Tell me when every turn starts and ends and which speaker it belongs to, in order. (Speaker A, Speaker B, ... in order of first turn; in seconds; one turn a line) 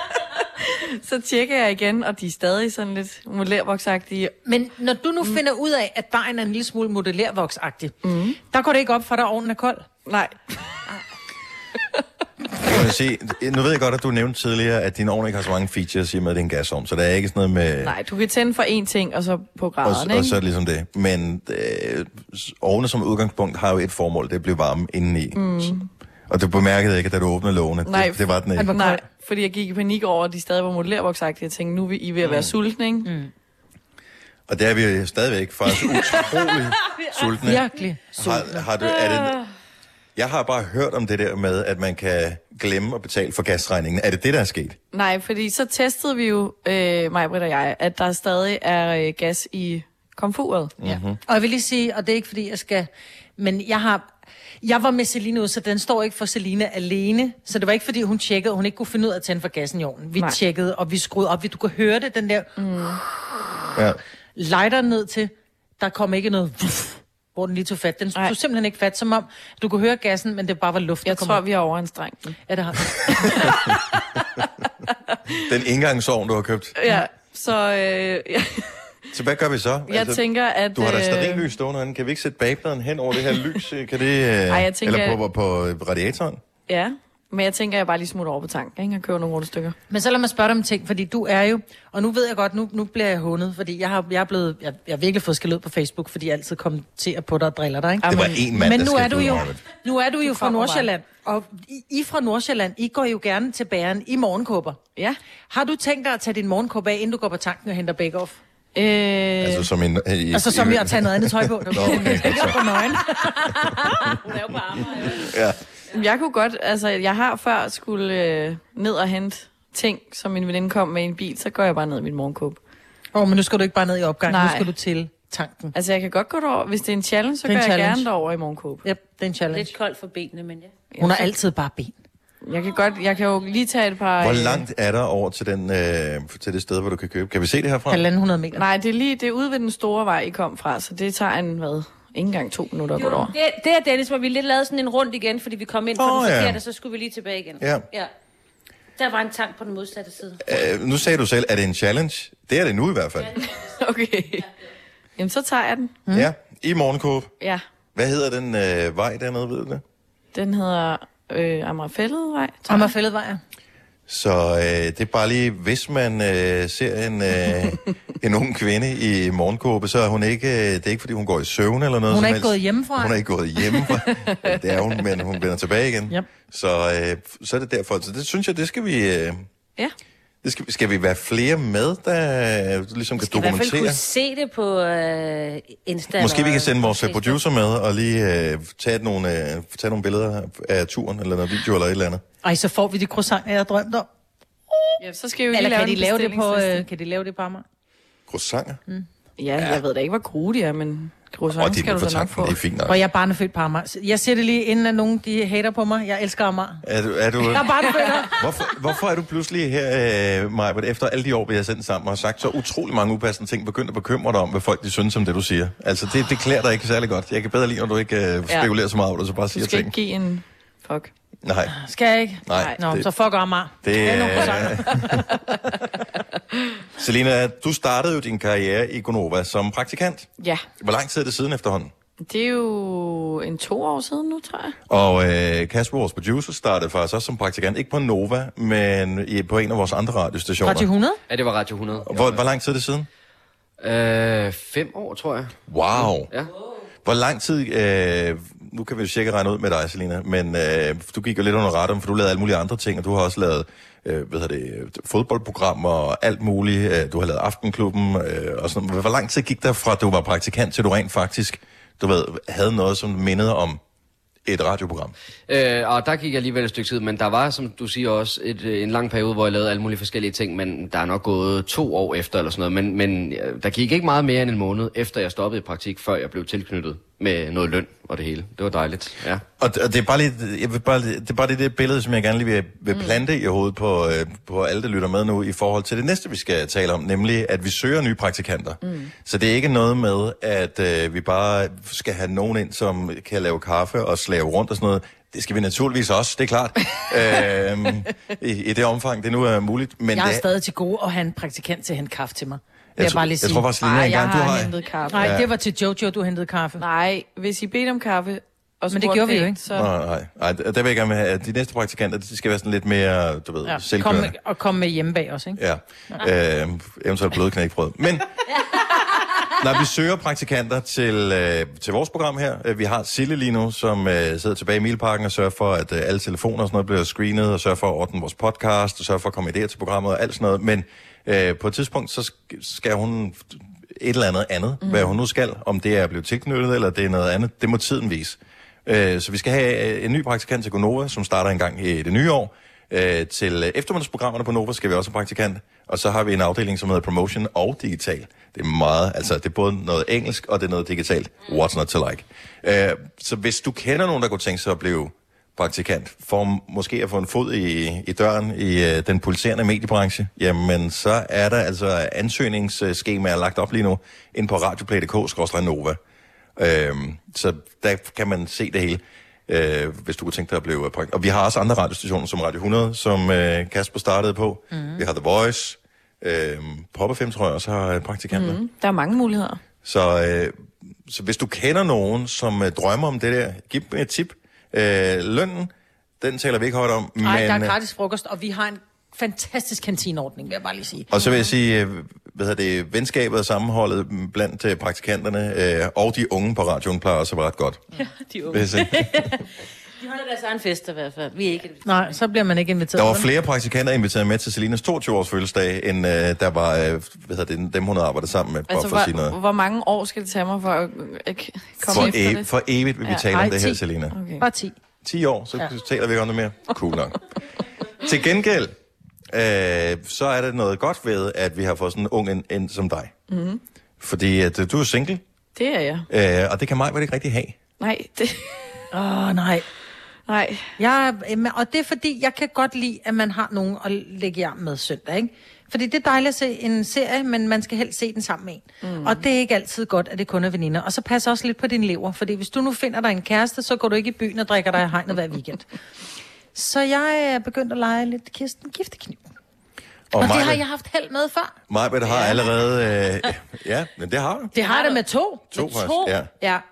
Speaker A: 0.6-4.3
Speaker B: 4.5-9.9
Speaker A: 8.0-8.4
Speaker A: 10.1-10.4
Speaker C: 12.6-18.0
Speaker A: 17.8-20.4
Speaker C: 19.8-25.8
Speaker A: 25.4-25.9
Speaker C: 26.3-28.8
Speaker A: 27.9-33.1
Speaker B: 28.6-29.0
Speaker C: 32.2-32.5
Speaker B: 33.0-33.3
Speaker C: 34.5-39.4
Speaker B: 37.4-38.7
Speaker C: 40.2-44.8
Speaker A: 44.9-50.7
Speaker C: 50.8-51.2
Speaker B: 50.9-54.1
Speaker B: 54.6-62.5
Speaker A: 62.6-63.0
Speaker C: 63.8-64.0
Speaker B: 64.4-71.4
Speaker A: 71.0-72.4
Speaker B: 72.5-73.5
Speaker A: 73.3-73.7
Speaker C: 75.3-76.8
Speaker A: 76.8-78.8
Speaker C: 79.1-86.4
Speaker A: 79.9-81.5
Speaker A: 84.5-85.2
Speaker A: 86.7-89.8
Speaker B: 89.9-104.8
Speaker A: 98.0-98.4
Speaker C: 98.0-99.6
Speaker A: 100.2-100.9
Speaker B: 105.5-108.4
Speaker A: 108.8-109.7
Speaker C: 109.4-112.8
Speaker B: 110.3-113.8
Speaker D: 114.0-115.3
Speaker C: 115.1-115.6
Speaker A: 115.9-122.6
Speaker B: 123.1-125.7
Speaker A: 124.3-124.7
Speaker A: 125.7-128.8
Speaker B: 127.5-128.1
Speaker B: 128.8-129.7
Speaker D: 129.5-130.7
Speaker A: 130.9-131.3
Speaker B: 131.0-131.9
Speaker A: 132.4-134.6
Speaker C: 134.2-138.1
Speaker B: 137.9-138.7
Speaker A: 138.5-143.3
Speaker D: 143.0-148.1
Speaker C: 145.9-146.6
Speaker C: 147.6-147.8
Speaker D: 149.0-150.6
Speaker C: 150.4-153.4
Speaker A: 153.7-154.5
Speaker A: 155.2-156.0
Speaker C: 156.1-157.3
Speaker C: 157.9-159.8
Speaker A: 160.3-162.9
Speaker B: 162.7-163.4
Speaker C: 164.1-179.5
Speaker B: 172.1-173.2
Speaker C: 180.4-184.0
Speaker D: 183.2-187.4
Speaker C: 186.1-192.2
Speaker B: 192.4-194.1
Speaker A: 195.0-196.8
Speaker B: 195.5-197.6
Speaker C: 198.3-198.8
Speaker A: 199.4-202.6
Speaker C: 199.6-199.8
Speaker C: 201.6-203.0
Speaker B: 202.9-206.8
Speaker C: 206.8-207.7
Speaker B: 207.4-208.4
Speaker C: 208.3-219.9
Speaker A: 219.5-221.1
Speaker C: 221.4-221.7
Speaker B: 221.7-225.1
Speaker C: 222.4-223.1
Speaker C: 223.8-225.2
Speaker A: 224.3-225.1
Speaker C: 227.0-231.9
Speaker A: 230.4-230.7
Speaker A: 232.2-234.8
Speaker C: 234.9-240.9
Speaker B: 240.6-241.2
Speaker E: 241.3-242.5
Speaker C: 242.1-243.1
Speaker E: 243.8-246.5
Speaker C: 245.7-246.3
Speaker C: 247.1-263.8
Speaker C: 264.4-265.1
Speaker E: 265.5-279.4
Speaker C: 279.6-300.4
Speaker A: 282.9-283.2
Speaker A: 288.9-289.1
Speaker B: 300.1-303.7
Speaker C: 303.0-305.5
Speaker A: 303.8-305.4
Speaker B: 305.1-306.8
Speaker A: 306.8-309.9
Speaker B: 308.9-309.6
Speaker C: 309.7-314.4
Speaker B: 313.7-315.6
Speaker C: 315.6-318.3
Speaker C: 319.5-366.0
Speaker A: 334.8-335.2
Speaker C: 366.6-378.6
Speaker B: 374.7-375.0
Speaker A: 378.3-379.6
Speaker C: 379.8-387.8
Speaker B: 387.2-391.1
Speaker C: 391.1-397.8
Speaker D: 398.0-399.4
Speaker C: 398.5-399.3
Speaker D: 400.0-402.2
Speaker B: 401.9-403.3
Speaker C: 402.9-409.4
Speaker A: 408.7-412.5
Speaker C: 411.9-414.2
Speaker A: 413.1-413.3
Speaker B: 413.3-413.8
Speaker A: 414.1-414.4
Speaker B: 414.4-414.7
Speaker C: 415.0-417.2
Speaker C: 418.0-418.8
Speaker C: 419.3-423.1
Speaker A: 423.3-423.6
Speaker C: 424.0-425.2
Speaker A: 425.6-426.1
Speaker C: 426.1-427.6
Speaker A: 427.8-428.8
Speaker B: 428.9-429.7
Speaker A: 430.3-430.7
Speaker B: 430.8-445.6
Speaker A: 438.8-439.2
Speaker B: 446.6-449.3
Speaker C: 450.1-450.6
Speaker B: 450.2-451.6
Speaker C: 451.7-454.5
Speaker B: 452.1-452.4
Speaker B: 454.5-456.6
Speaker D: 454.6-455.0
Speaker C: 455.5-456.3